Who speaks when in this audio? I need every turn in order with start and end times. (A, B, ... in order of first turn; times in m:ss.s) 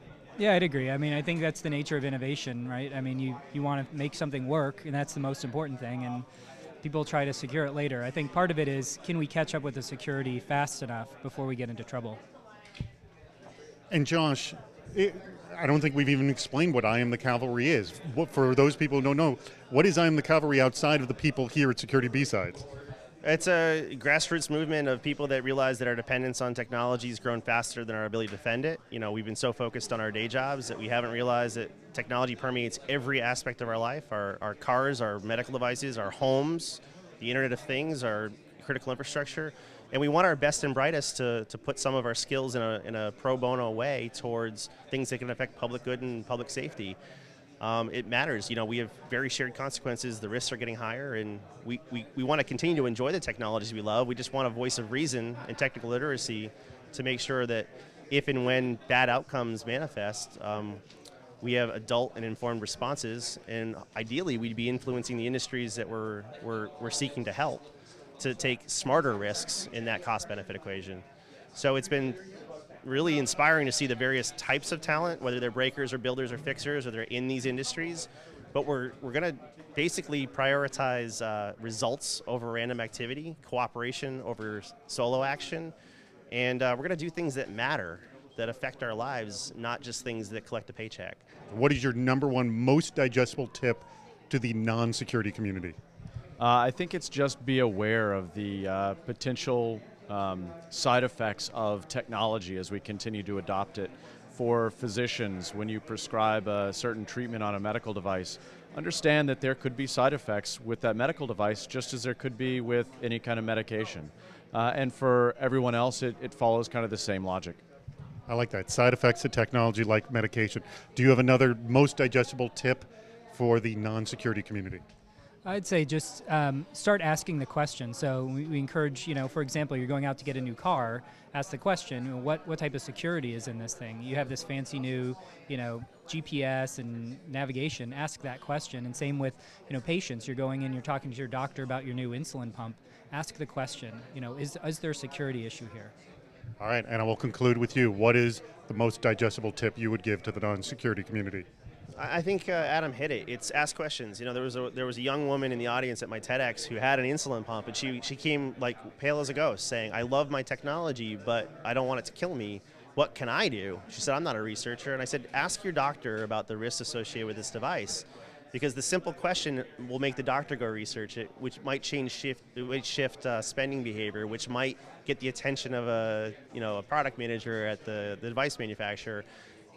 0:00.4-0:06.2 A
0:06.8-0:12.2 A
0:13.9-0:22.6 B
0:23.2-0:47.0 C
0:47.6-1:00.8 C
1:01.4-1:07.7 C
1:08.2-1:12.2 C
1:12.8-1:25.7 C
1:26.3-1:31.2 C
1:31.5-1:35.8 B
1:36.4-1:57.6 D
1:58.3-2:04.8 B
2:05.4-2:25.9 A
2:26.6-2:31.4 B
2:32.0-2:59.2 C